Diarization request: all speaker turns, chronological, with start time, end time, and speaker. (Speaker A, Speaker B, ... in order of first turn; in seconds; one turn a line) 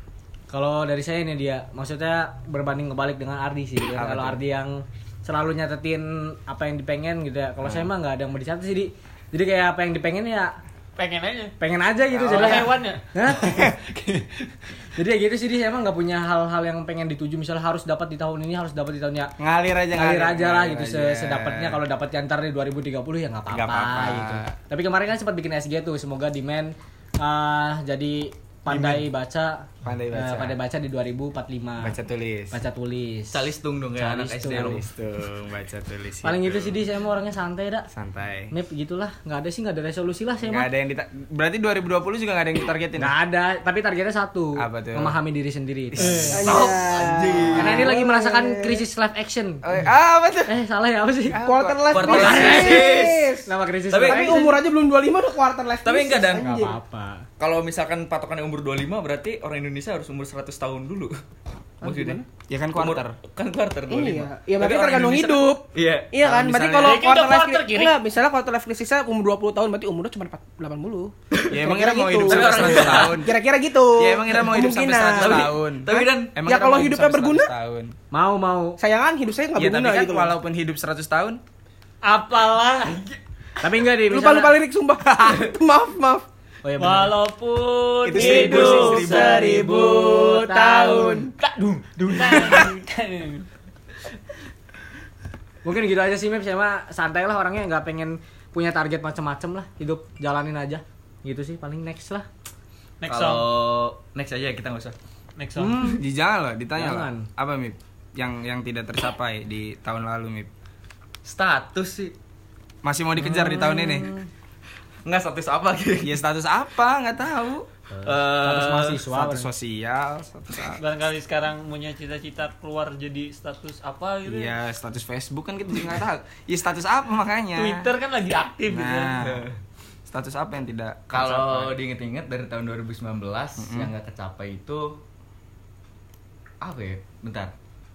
Speaker A: 0.5-10.6
Speaker B: 3.9-4.4
Speaker B: 7.6-7.9
Speaker C: 10.9-11.5
Speaker A: 11.6-13.7
Speaker B: 12.1-12.6
Speaker C: 12.2-14.2
Speaker A: 14.9-19.3
Speaker B: 19.4-21.8
Speaker A: 19.9-31.9
Speaker B: 23.5-24.5
Speaker B: 29.8-30.6
Speaker B: 31.8-32.6
Speaker A: 32.5-34.8
Speaker D: 33.3-34.8
Speaker B: 34.5-36.8
Speaker A: 36.2-37.9
Speaker B: 37.9-38.5
Speaker A: 38.5-40.7
Speaker B: 40.4-43.1
Speaker A: 43.0-46.5
Speaker B: 44.6-45.2
Speaker B: 46.0-46.3
Speaker D: 46.1-47.9
Speaker E: 46.3-48.8
Speaker A: 47.5-49.6
Speaker B: 49.6-50.5
Speaker A: 50.5-51.4
Speaker B: 51.3-52.6
Speaker E: 51.4-56.8
Speaker D: 51.9-53.4
Speaker A: 52.1-52.9
Speaker A: 53.5-54.6
Speaker D: 53.9-54.4
Speaker D: 55.8-56.5
Speaker A: 56.4-57.2
Speaker D: 57.4-61.1
Speaker D: 61.8-62.2
Speaker E: 61.8-62.2
Speaker B: 62.5-63.1
Speaker D: 62.7-66.1
Speaker E: 63.9-77.5
Speaker B: 66.2-67.0
Speaker C: 66.8-68.0
Speaker B: 71.5-73.4
Speaker D: 72.2-73.2
Speaker B: 74.0-77.9
Speaker D: 75.2-76.3
Speaker A: 78.1-78.8
Speaker E: 78.8-80.3
Speaker B: 79.5-81.4
Speaker C: 82.0-83.0
Speaker D: 82.9-83.2
Speaker A: 83.6-84.5
Speaker E: 84.0-86.2
Speaker B: 85.1-85.4
Speaker A: 86.6-87.1
Speaker C: 86.8-89.8
Speaker B: 88.0-89.5
Speaker E: 88.2-91.3
Speaker A: 88.2-91.2
Speaker C: 90.8-93.5
Speaker A: 95.6-102.3
Speaker C: 103.0-103.5
Speaker D: 103.0-104.9
Speaker C: 105.4-105.9
Speaker B: 105.7-110.5
Speaker A: 106.8-107.3
Speaker D: 111.2-112.1
Speaker B: 112.8-114.1
Speaker A: 113.6-113.9
Speaker D: 115.0-116.2
Speaker B: 116.0-117.7
Speaker A: 117.9-119.5
Speaker D: 118.0-119.0
Speaker B: 119.1-120.8
Speaker C: 120.8-124.5
Speaker B: 124.2-127.9
Speaker C: 127.5-129.2
Speaker B: 128.7-129.4
Speaker D: 129.2-129.5
Speaker B: 130.1-131.8
Speaker D: 131.1-135.0
Speaker B: 133.6-133.9
Speaker D: 136.6-137.5